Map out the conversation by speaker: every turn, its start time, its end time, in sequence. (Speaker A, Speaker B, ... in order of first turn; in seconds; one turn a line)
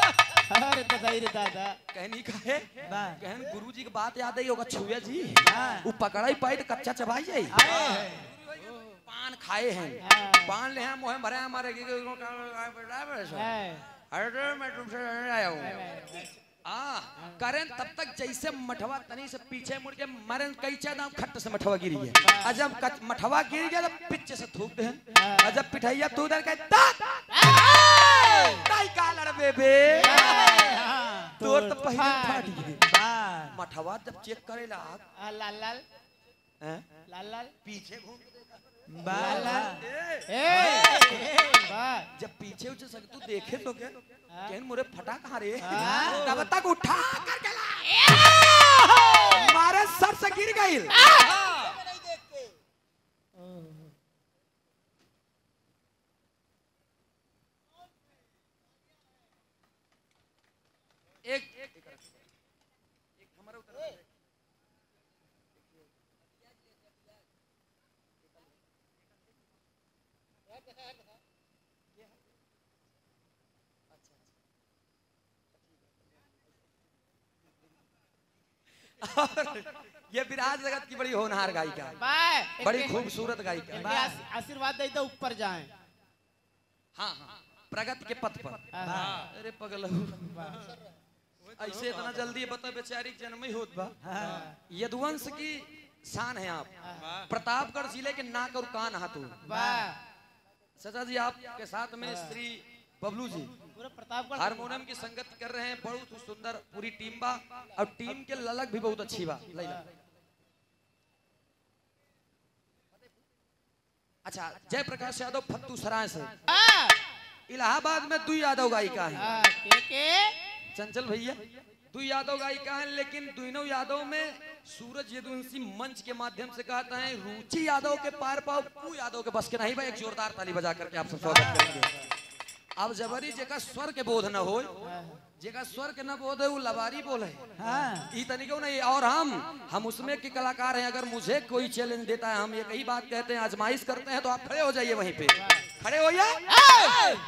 Speaker A: 0.3-1.8
Speaker B: 1.9-7.7
Speaker C: 2.8-3.2
Speaker C: 5.5-5.9
Speaker C: 7.5-8.3
Speaker B: 8.6-13.6
Speaker A: 10.0-10.5
Speaker A: 13.3-13.9
Speaker B: 14.1-15.9
Speaker A: 15.6-16.3
Speaker B: 16.6-30.6
Speaker A: 22.2-22.6
Speaker A: 25.1-25.6
Speaker A: 27.3-28.6
Speaker A: 29.9-30.8
Speaker C: 30.3-31.4
Speaker B: 31.4-32.9
Speaker A: 31.4-32.7
Speaker C: 32.8-33.6
Speaker B: 33.5-35.0
Speaker A: 35.2-35.8
Speaker B: 36.6-37.0
Speaker A: 37.1-37.6
Speaker B: 37.6-38.6
Speaker C: 38.9-39.9
Speaker A: 39.1-42.1
Speaker B: 39.8-40.3
Speaker C: 40.5-41.7
Speaker B: 42.2-51.4
Speaker A: 45.6-46.3
Speaker C: 45.7-46.4
Speaker A: 53.4-53.9
Speaker B: 61.2-62.2
Speaker B: 63.2-64.0
Speaker B: 74.0-74.2
Speaker B: 79.0-82.0
Speaker A: 82.0-83.1
Speaker B: 82.6-83.9
Speaker A: 83.7-85.7
Speaker C: 83.8-84.2
Speaker B: 87.0-90.5
Speaker A: 88.7-89.2
Speaker C: 88.8-89.3
Speaker A: 90.3-90.7
Speaker B: 91.5-94.0
Speaker C: 94.0-94.6
Speaker A: 94.2-94.5
Speaker B: 94.7-99.4
Speaker A: 96.8-97.2
Speaker A: 99.4-100.0
Speaker C: 99.5-99.9
Speaker B: 100.8-103.5
Speaker A: 102.0-102.3
Speaker A: 103.8-104.7
Speaker B: 104.3-109.9
Speaker B: 114.2-116.3
Speaker A: 116.5-117.0
Speaker B: 117.5-119.3
Speaker A: 119.1-120.4
Speaker B: 120.7-131.9
Speaker C: 131.3-131.6
Speaker A: 131.5-132.0
Speaker B: 132.8-134.7
Speaker A: 134.8-135.2
Speaker B: 135.4-137.5
Speaker C: 137.6-138.1
Speaker B: 138.1-146.4
Speaker A: 145.3-145.7
Speaker A: 146.5-147.2